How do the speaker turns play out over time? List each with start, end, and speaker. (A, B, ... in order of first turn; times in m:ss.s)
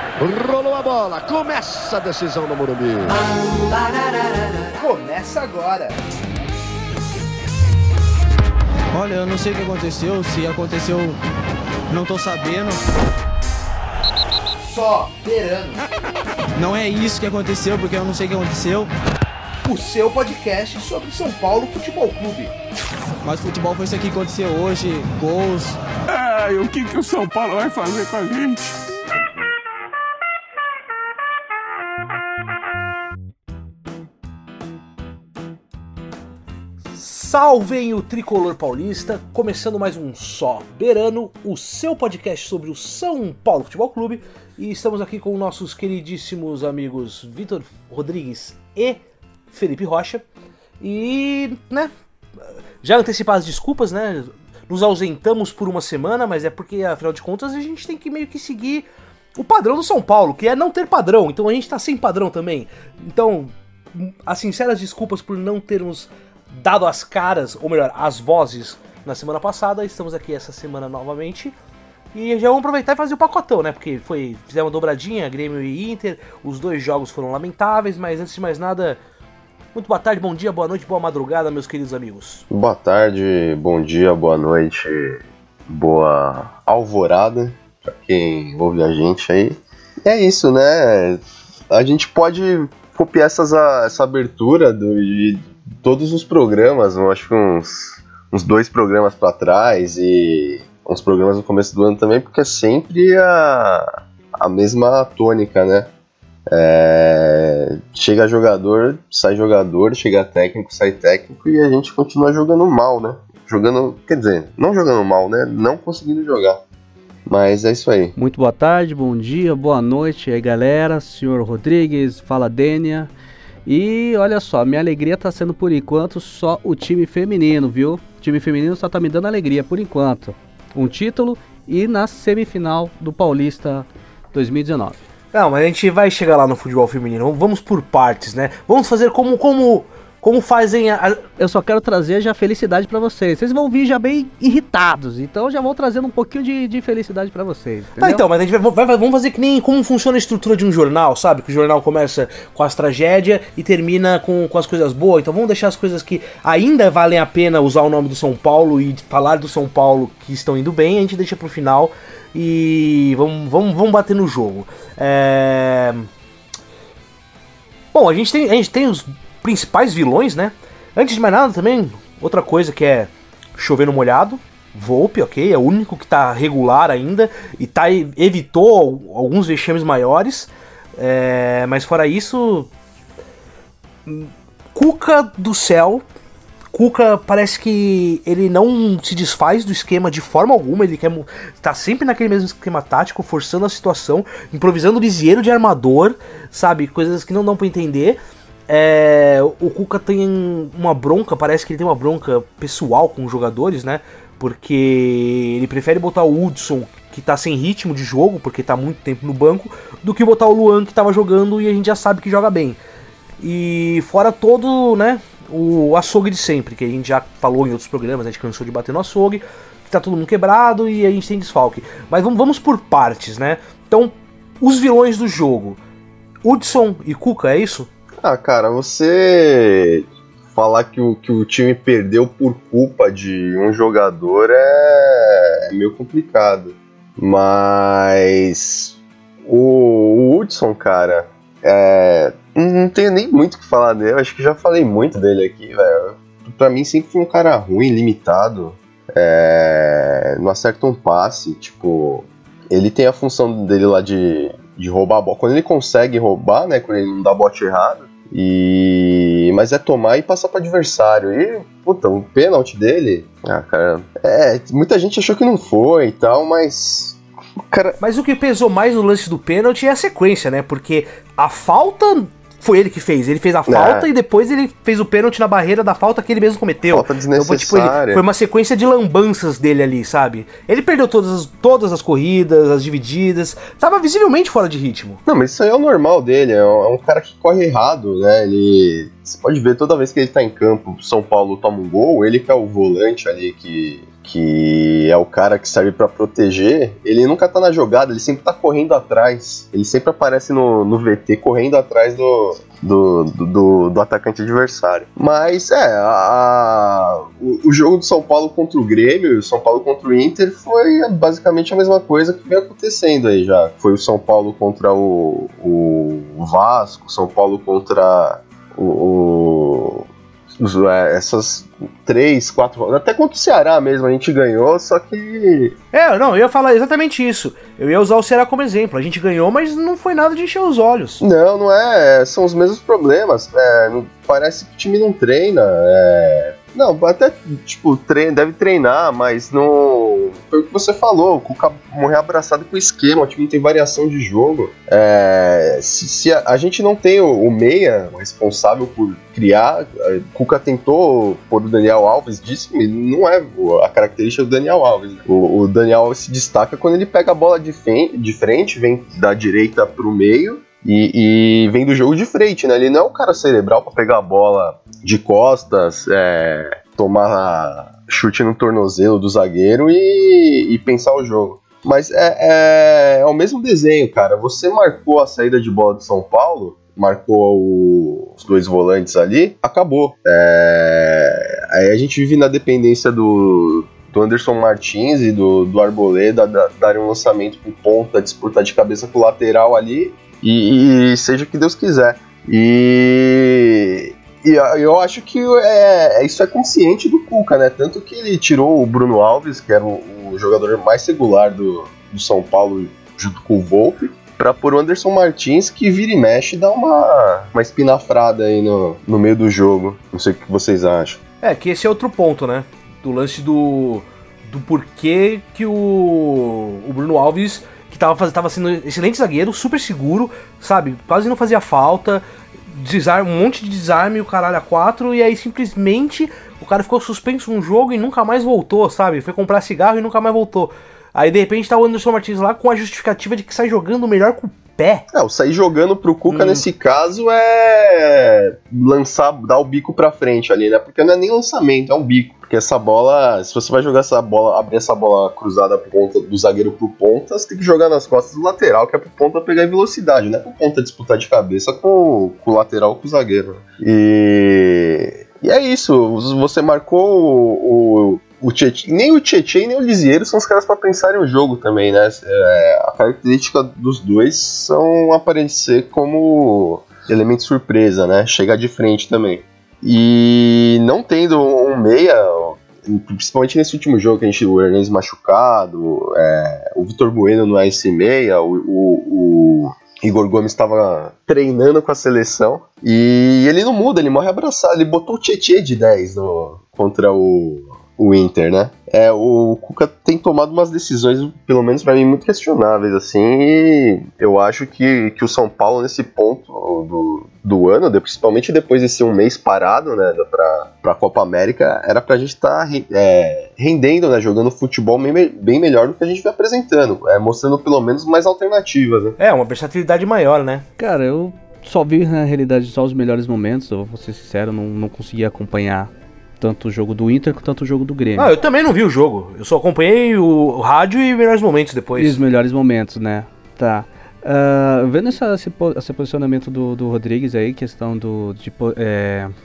0:00.2-0:03.2 A
0:03.1-0:06.0 B
0:08.9-0:11.2 C
0:11.9-0:12.8 C
0:14.6-0:15.8 B
0:16.6-0:18.9 C
0:19.6-0:22.5 B
0:23.2-0:25.8 C
0:26.1-0:28.9 D
0:36.9-0:50.2 B
0:50.8-0:51.9 B
0:52.8-1:11.5 B
1:12.1-1:19.0 B
1:19.7-1:22.4 B
1:22.5-1:45.9 E
1:46.5-1:56.6 E
1:57.3-1:58.1 E
1:58.2-2:03.1 F
2:03.6-2:15.0 F
2:15.3-2:21.2 B
2:21.4-2:28.2 F
2:28.0-2:46.1 B
2:47.9-3:02.7 B
3:04.0-3:06.0 B
3:06.7-3:32.8 B
3:33.4-3:45.8 B
3:46.4-3:47.9 B
3:48.2-4:28.0 E
4:28.0-4:45.2 B
4:33.7-4:34.1 E
4:36.9-4:38.2 E
4:45.3-5:25.7 E
5:25.9-5:31.2 B
5:31.2-6:51.2 E
6:51.4-7:15.0 B
7:15.1-8:29.2 E
7:16.3-7:16.6 B
8:29.2-8:30.6 B
8:30.8-8:38.3 F
8:38.2-8:42.2 B
8:42.0-8:49.3 F